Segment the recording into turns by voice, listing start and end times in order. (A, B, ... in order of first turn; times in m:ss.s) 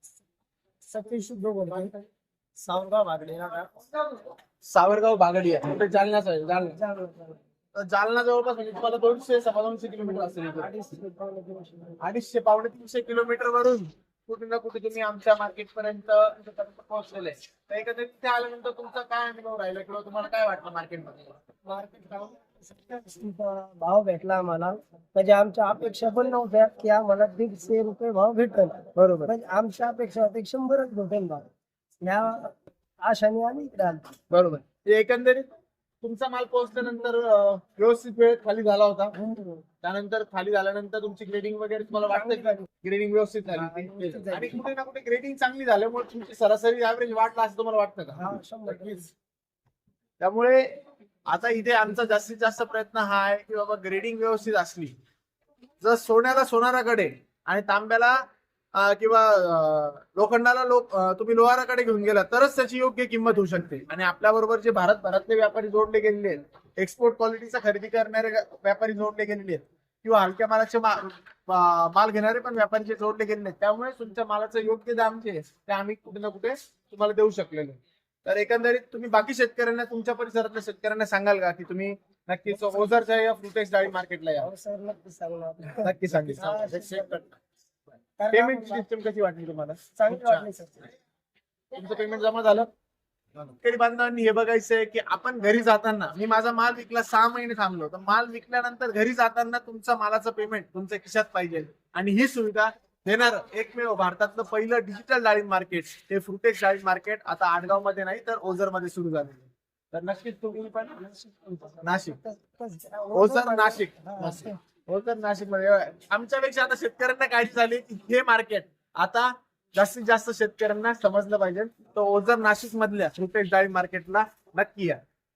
0:00.9-0:01.9 A
0:02.6-0:03.8 A
0:04.6-0:06.8 B
0:06.7-0:07.4 A
0:07.7-0:10.7 B
0:10.4-0:12.0 A
0:12.0-0:21.3 B
0:21.7-0:31.4 A
0:28.9-0:29.3 B
0:32.0-0:34.1 A
0:34.3-0:35.4 B
0:36.0-0:39.2 B
0:39.2-0:39.6 A
0:39.8-0:49.0 B
0:42.1-0:42.6 A
0:43.5-0:44.6 A
0:48.1-0:49.1 A
0:50.2-0:54.9 B
0:55.8-0:58.2 B
0:58.7-1:24.5 B
1:24.4-1:27.2 A
1:25.8-1:27.2 B
1:28.2-1:28.9 A
1:28.3-1:30.4 B
1:30.0-1:30.9 A
1:31.7-1:32.7 B
1:33.5-1:51.0 B
1:50.9-1:54.6 A
1:51.8-1:52.2 B
1:53.1-2:05.0 B